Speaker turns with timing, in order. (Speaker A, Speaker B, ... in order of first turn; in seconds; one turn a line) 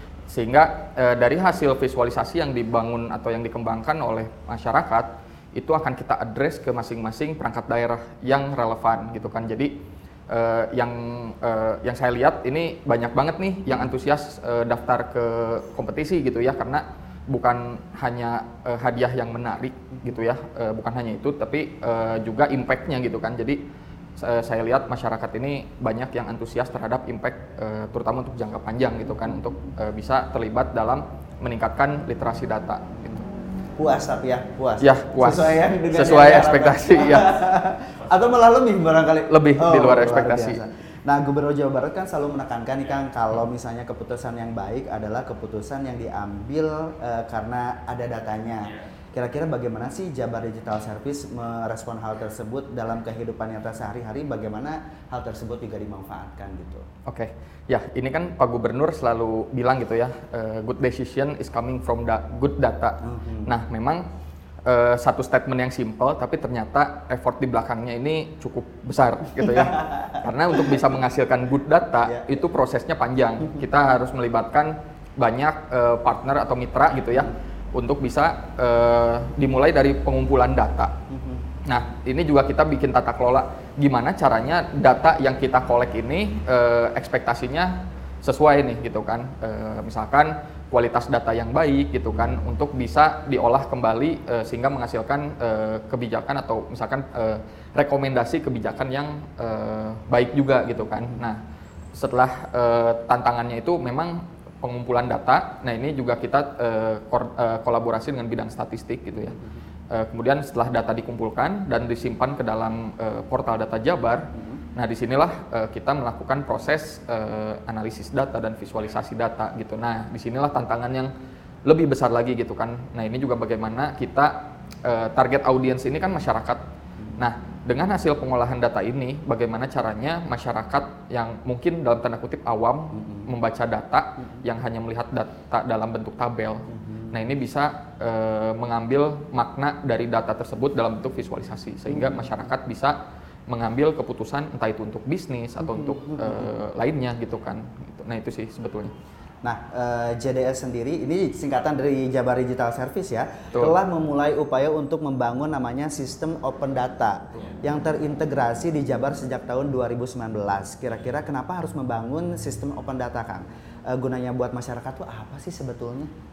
Speaker A: 0.3-23.6
Speaker A: 24.2-33.3
Speaker B: 33.8-56.9
Speaker A: 34.8-37.4
Speaker A: 39.3-40.6
Speaker A: 57.1-64.0
Speaker B: 63.0-63.5
Speaker A: 64.7-80.9
Speaker B: 81.1-81.4
Speaker A: 81.7-101.4
Speaker A: 101.9-109.3
Speaker A: 109.9-121.1
Speaker B: 114.3-114.6
Speaker A: 121.7-126.6
Speaker A: 127.2-143.0
Speaker B: 133.0-133.3
Speaker B: 136.7-137.2
Speaker B: 141.9-142.3
Speaker A: 143.5-148.9
Speaker B: 145.6-146.4
Speaker B: 149.4-166.1